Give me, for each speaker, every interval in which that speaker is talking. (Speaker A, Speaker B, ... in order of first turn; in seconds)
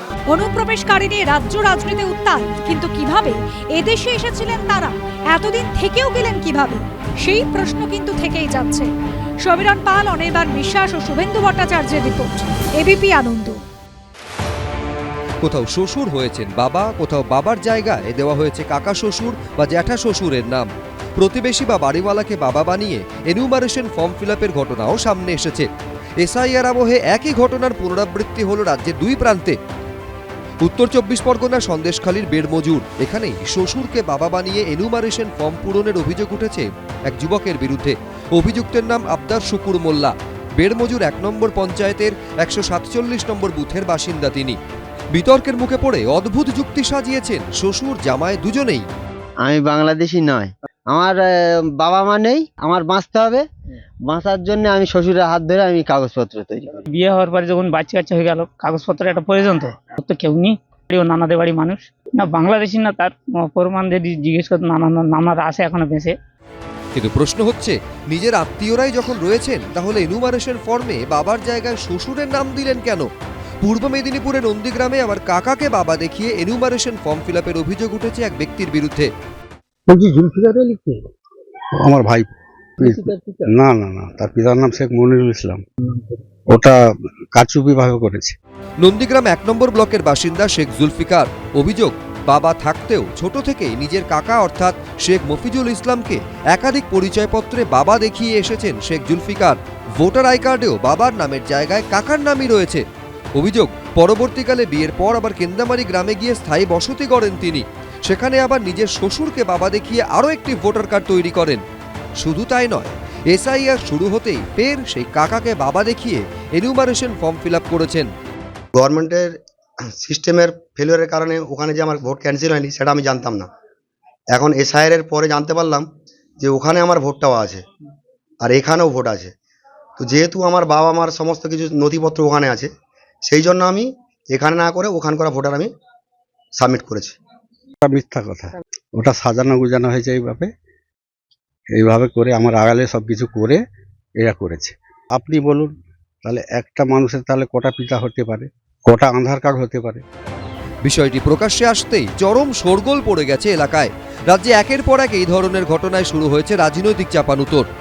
Speaker A: 0.3-8.9, 9.4-13.6
Speaker B: 15.4-25.7, 26.2-29.6, 30.6-44.6, 45.1-48.9, 67.0-73.1, 73.6-79.1, 88.8-102.8, 103.4-111.6, 112.2-118.1, 150.8-157.7
Speaker C: 49.4-53.5, 54.1-56.8
Speaker D: 56.9-66.2
Speaker E: 81.8-85.6, 86.5-86.8, 87.3-88.4, 137.8-140.5, 141.8-143.6, 144.2-145.7, 146.2-150.0
Speaker F: 118.8-119.3, 120.0-123.5, 124.3-125.9, 126.4-127.6, 128.4-129.3, 130.0-132.7, 133.3-135.7, 136.6-137.2